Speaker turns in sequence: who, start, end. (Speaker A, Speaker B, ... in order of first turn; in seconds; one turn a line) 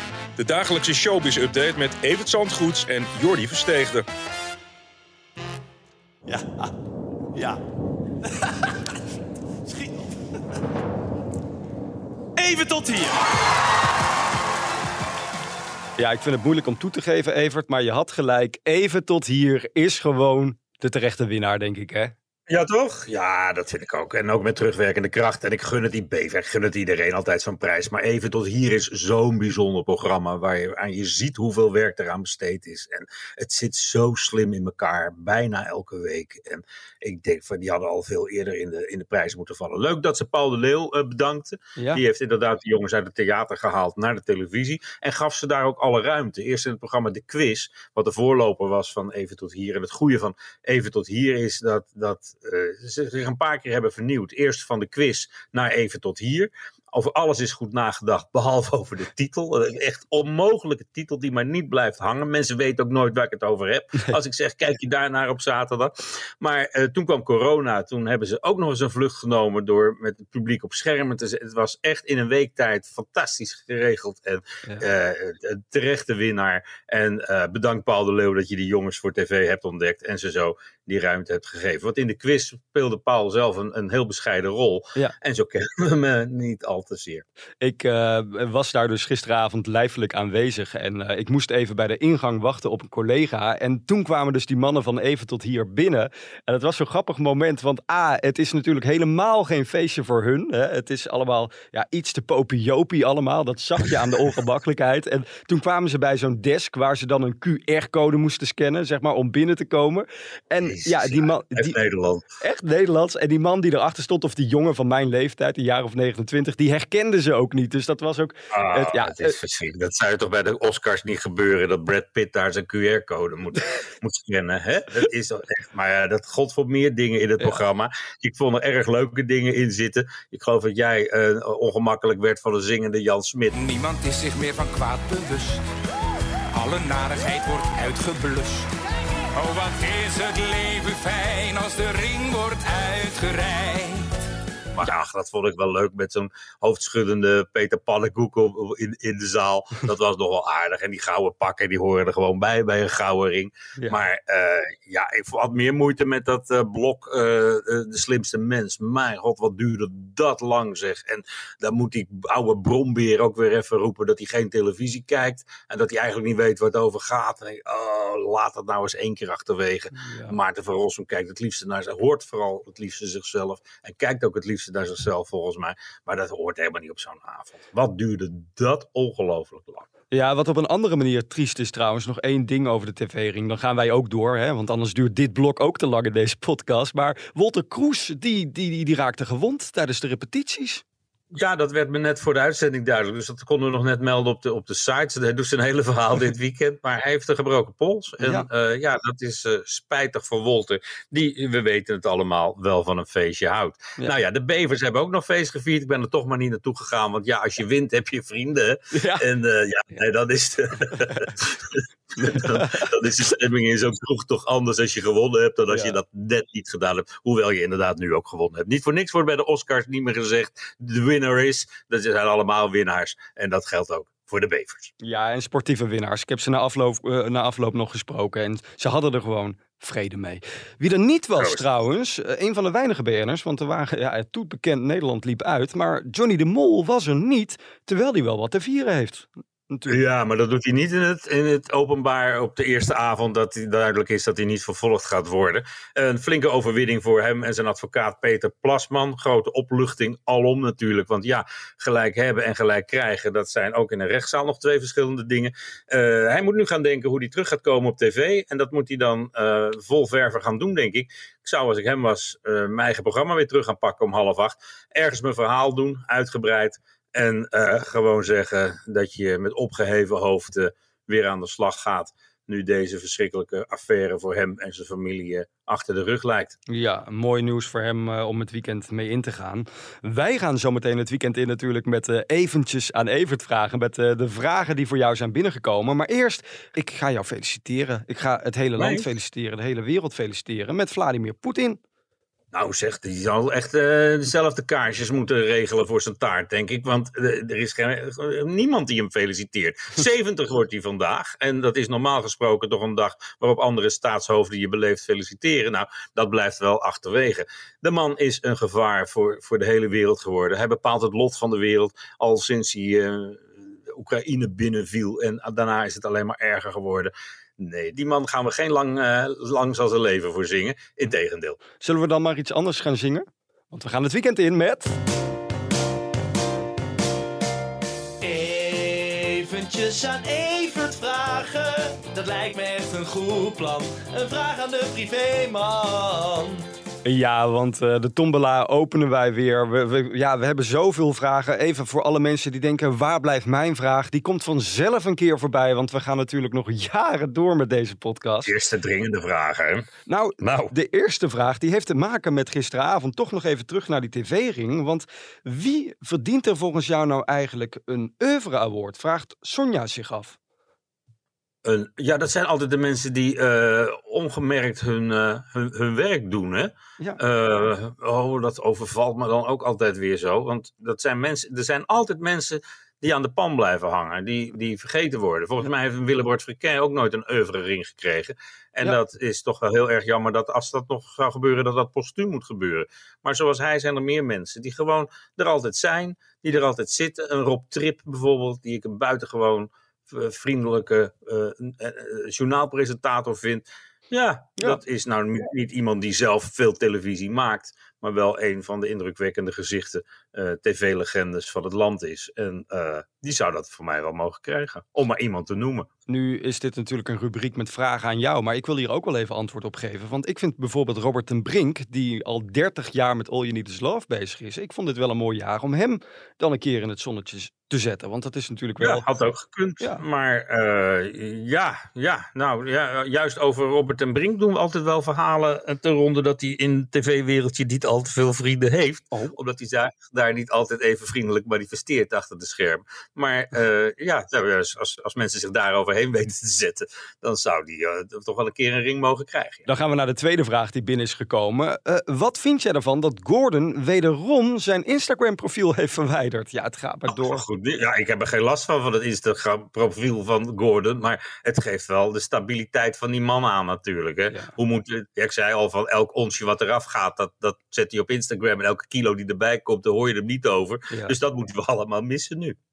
Speaker A: 0.4-4.0
Speaker B: 16.0-22.1
Speaker C: 22.5-87.2
Speaker B: 41.8-42.0
Speaker B: 87.6-111.8
Speaker C: 110.6-112.2
Speaker B: 112.4-119.3
Speaker C: 118.5-133.6
Speaker D: 133.5-135.7
Speaker D: 136.5-138.7
Speaker D: 139.3-144.3
Speaker C: 144.8-179.9
Speaker B: 153.8-154.0
Speaker B: 169.9-170.4
Speaker B: 180.1-190.8
Speaker C: 191.3-224.9
Speaker B: 198.2-198.4
Speaker B: 208.9-209.2
Speaker B: 212.2-212.9
Speaker B: 215.7-216.0
Speaker B: 225.0-240.0
Speaker C: 231.4-231.6
Speaker C: 239.9-276.6
Speaker B: 276.7-291.8
Speaker C: 288.8-289.1
Speaker C: 292.5-321.6
Speaker B: 321.8-324.9
Speaker E: 328.2-336.6
Speaker B: 337.0-348.5
Speaker C: 348.4-349.9
Speaker B: 350.1-360.4
Speaker C: 350.4-350.7
Speaker C: 361.6-405.9
Speaker B: 406.1-419.1
Speaker C: 418.8-439.7
Speaker B: 439.7-447.4
Speaker C: 447.1-462.6